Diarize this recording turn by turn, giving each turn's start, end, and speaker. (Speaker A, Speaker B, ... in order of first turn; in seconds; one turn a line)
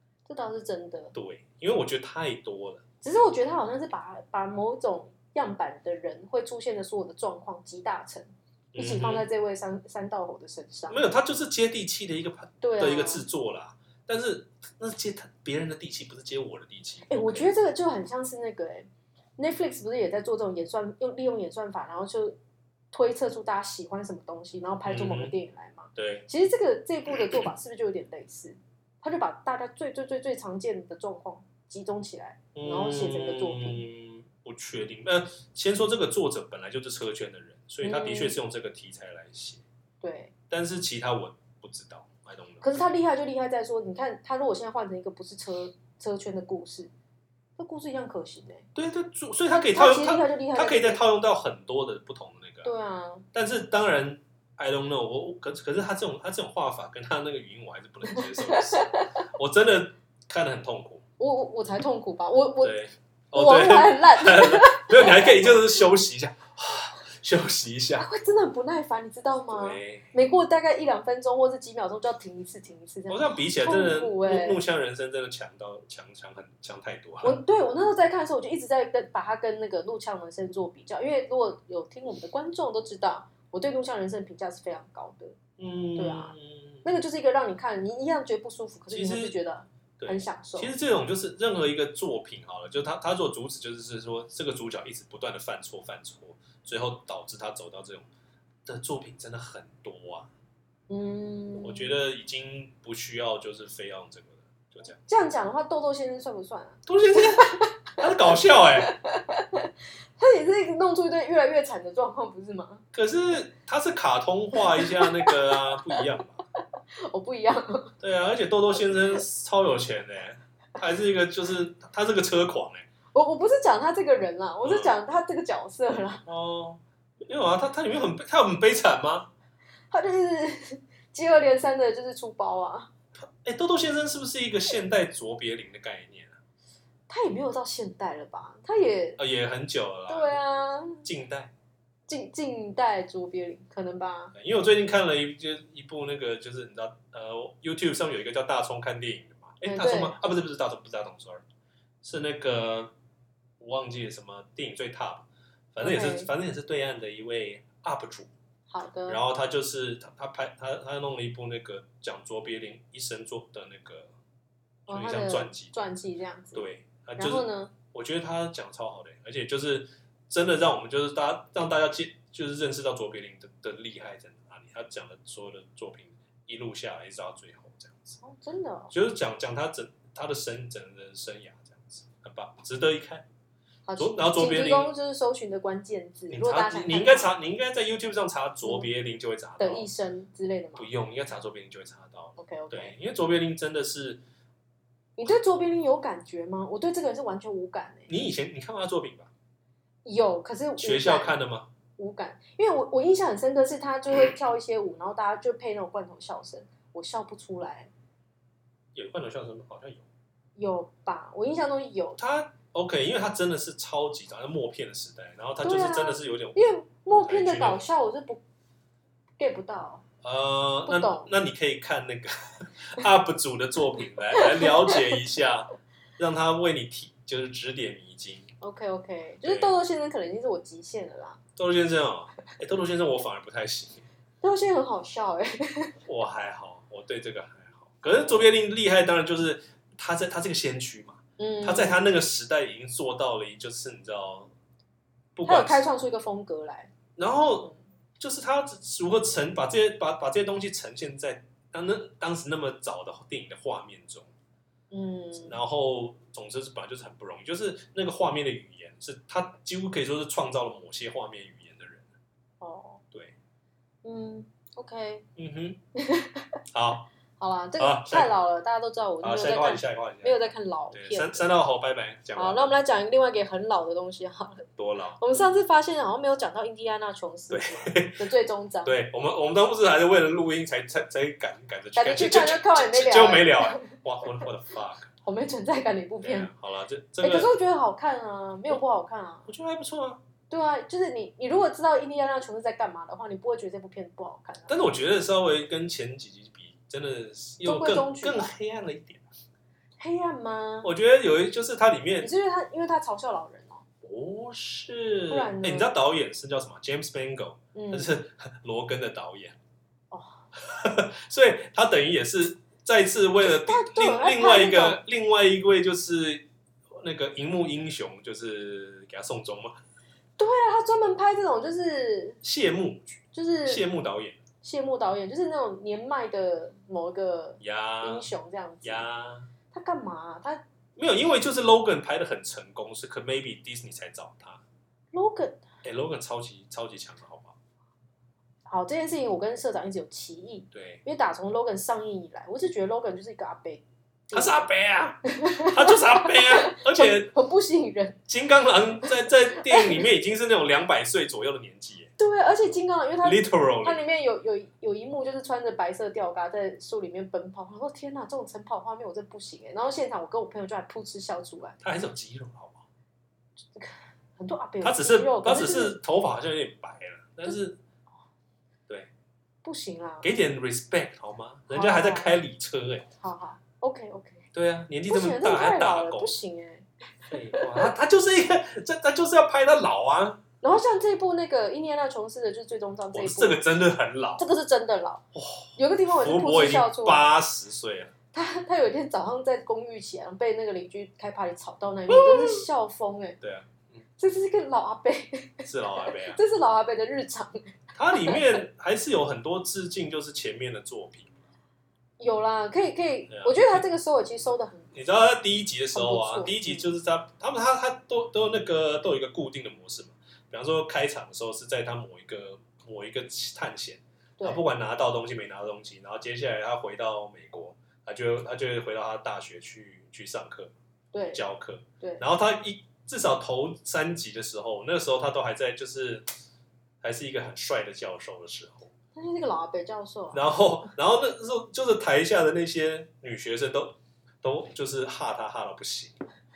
Speaker A: 0.3-1.1
Speaker B: 1.1-2.8
Speaker A: 3.0-11.0
Speaker B: 8.7-9.3
Speaker B: 10.9-17.5
Speaker A: 12.6-13.2
Speaker A: 17.1-22.4
Speaker A: 22.9-33.9
Speaker B: 24.9-25.4
Speaker B: 26.0-26.3
Speaker B: 32.5-39.6
Speaker A: 37.8-38.4
Speaker A: 40.0-40.3
Speaker B: 40.5-42.7
Speaker A: 42.6-46.9
Speaker A: 47.6-48.7
Speaker B: 48.8-52.7
Speaker A: 49.5-51.0
Speaker A: 52.6-53.3
Speaker B: 53.3-61.0
Speaker A: 58.0-59.2
Speaker A: 61.2-62.8
Speaker B: 62.6-68.1
Speaker A: 63.3-65.8
Speaker A: 68.0-74.6
Speaker B: 69.5-70.1
Speaker B: 73.1-77.4
Speaker A: 77.2-85.4
Speaker B: 85.6-86.8
Speaker A: 86.0-90.7
Speaker B: 88.9-89.4
Speaker B: 90.0-98.1
Speaker B: 98.7-100.3
Speaker A: 100.9-101.9
Speaker B: 101.6-105.0
Speaker A: 105.0-112.8
Speaker B: 106.9-108.9
Speaker B: 112.9-116.4
Speaker A: 114.5-116.2
Speaker A: 117.0-118.0
Speaker B: 118.0-122.9
Speaker A: 123.1-126.2
Speaker B: 124.6-124.9
Speaker B: 126.3-129.3
Speaker A: 129.9-132.9
Speaker B: 133.2-136.4
Speaker A: 137.1-139.2
Speaker B: 139.2-140.3
Speaker A: 140.1-141.1
Speaker B: 141.0-141.5
Speaker A: 142.1-144.3
Speaker B: 144.3-151.4
Speaker A: 149.6-150.2
Speaker B: 152.0-152.9
Speaker B: 153.6-158.3
Speaker A: 155.8-156.3
Speaker A: 158.7-159.2
Speaker B: 159.1-164.1
Speaker B: 164.9-165.8
Speaker A: 164.9-166.7
Speaker B: 166.5-178.2
Speaker A: 167.2-167.7
Speaker A: 178.2-178.9
Speaker B: 178.9-183.3
Speaker A: 183.9-187.3
Speaker B: 184.0-184.9
Speaker B: 186.3-189.9
Speaker A: 189.6-190.9
Speaker B: 190.8-194.2
Speaker A: 192.4-192.9
Speaker A: 195.2-198.1
Speaker B: 198.1-199.3
Speaker A: 200.1-201.3
Speaker B: 200.8-201.7
Speaker A: 202.0-207.9
Speaker B: 208.9-210.1
Speaker A: 210.6-212.2
Speaker B: 212.2-217.8
Speaker A: 215.6-218.4
Speaker A: 219.4-220.0
Speaker B: 220.2-228.5
Speaker A: 220.9-221.3
Speaker A: 224.3-225.0
Speaker A: 228.6-231.4
Speaker B: 229.4-229.8
Speaker B: 231.6-234.1
Speaker A: 234.4-236.0
Speaker B: 236.1-244.5
Speaker A: 241.4-242.0
Speaker B: 245.4-245.8
Speaker A: 245.4-246.9
Speaker B: 247.2-254.3
Speaker A: 254.9-255.6
Speaker B: 255.4-262.1
Speaker A: 262.6-263.0
Speaker A: 264.0-265.3
Speaker B: 265.4-265.8
Speaker A: 266.0-266.6
Speaker B: 266.7-267.1
Speaker A: 267.4-271.5
Speaker B: 267.8-268.3
Speaker B: 269.2-270.4
Speaker B: 270.9-272.7
Speaker A: 272.3-274.7
Speaker B: 274.8-275.2
Speaker A: 275.2-278.9
Speaker B: 277.5-278.2
Speaker B: 278.8-285.1
Speaker A: 282.0-284.4
Speaker A: 285.2-286.5
Speaker B: 286.2-287.6
Speaker A: 287.2-289.5
Speaker B: 289.5-290.2
Speaker A: 290.5-294.8
Speaker B: 294.7-299.3
Speaker A: 297.6-298.5
Speaker A: 300.0-300.9
Speaker B: 300.8-302.3
Speaker A: 302.2-303.8
Speaker B: 304.0-309.6
Speaker A: 305.3-305.9
Speaker A: 307.8-308.1
Speaker A: 310.1-310.4
Speaker B: 310.6-319.8
Speaker A: 313.4-315.0
Speaker A: 320.4-322.4
Speaker B: 322.4-324.4
Speaker A: 323.3-323.8
Speaker A: 324.6-329.1
Speaker B: 327.6-328.2
Speaker B: 328.8-329.5
Speaker A: 329.7-330.6
Speaker B: 331.0-334.6
Speaker A: 335.1-335.6
Speaker B: 335.8-337.6
Speaker A: 338.7-344.6
Speaker B: 340.7-341.0
Speaker B: 344.3-347.3
Speaker A: 345.3-348.2
Speaker B: 348.3-352.1
Speaker A: 349.0-350.0
Speaker A: 352.2-361.8
Speaker B: 353.2-354.0
Speaker B: 361.8-362.9
Speaker A: 363.8-366.0
Speaker B: 364.8-367.8
Speaker A: 369.6-370.3
Speaker B: 370.2-373.1
Speaker A: 371.7-372.4
Speaker A: 373.2-374.5
Speaker B: 374.5-376.4
Speaker A: 375.1-377.9
Speaker B: 377.3-380.4
Speaker A: 380.6-383.6
Speaker B: 383.1-384.4
Speaker A: 384.4-385.2
Speaker B: 385.3-388.1
Speaker A: 385.8-387.3
Speaker A: 388.3-393.4
Speaker B: 392.1-392.7
Speaker B: 393.4-394.0
Speaker A: 394.2-398.6
Speaker B: 395.6-396.4
Speaker B: 397.9-401.4
Speaker A: 402.2-404.9
Speaker B: 403.3-403.9
Speaker B: 404.9-420.7
Speaker A: 405.9-406.9
Speaker A: 421.1-421.4
Speaker B: 421.3-426.3
Speaker B: 427.0-428.9
Speaker A: 429.1-430.5
Speaker B: 430.3-436.2